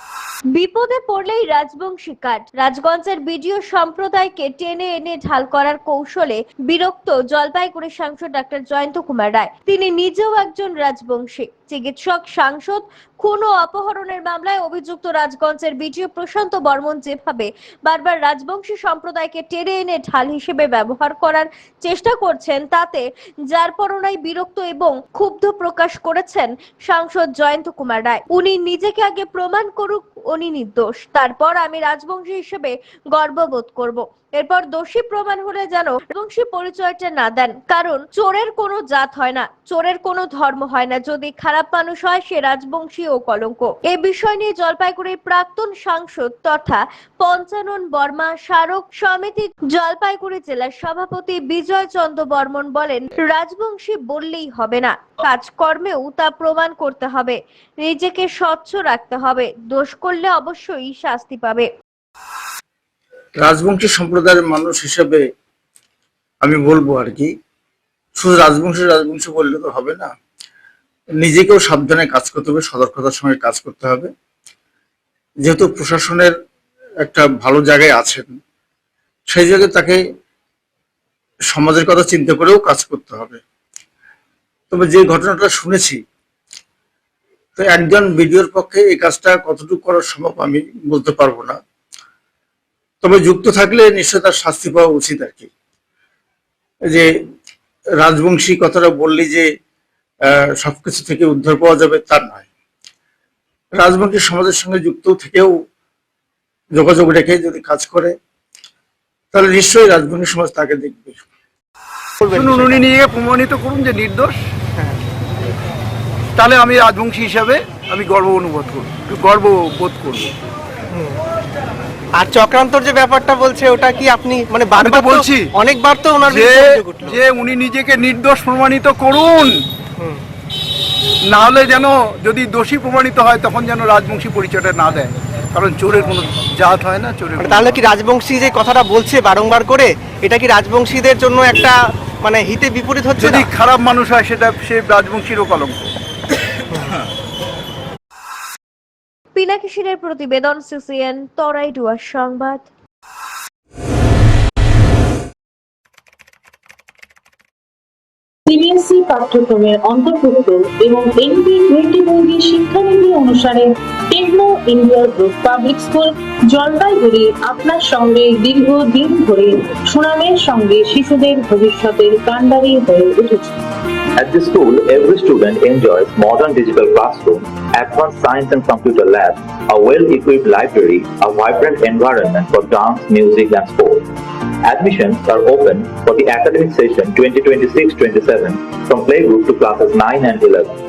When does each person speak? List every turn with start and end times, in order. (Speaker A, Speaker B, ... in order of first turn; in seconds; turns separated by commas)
Speaker A: 0.5-61.7, Speaker B: 63.4-65.2, Speaker B: 66.4-67.3, Speaker B: 68.2-70.1, Speaker B: 71.2-74.1, Speaker B: 75.4-76.3, Speaker B: 77.0-78.3, Speaker B: 79.3-80.0, Speaker B: 81.5-83.4, Speaker B: 84.7-86.0, Speaker B: 87.6-91.6, Speaker B: 93.0-95.5, Speaker B: 98.0-99.5, Speaker B: 100.3-102.5, Speaker B: 103.7-105.6, Speaker B: 106.7-108.1, Speaker B: 109.3-111.2, Speaker C: 112.2-112.8, Speaker D: 112.3-114.3, Speaker D: 116.3-120.3, Speaker C: 122.2-127.2, Speaker D: 124.8-125.5, Speaker D: 126.2-129.5, Speaker D: 131.3-137.8, Speaker C: 137.4-143.4, Speaker D: 143.2-145.9, Speaker A: 149.3-152.7, Speaker E: 158.5-173.5, Speaker F: 174.2-184.1, Speaker F: 184.6-190.7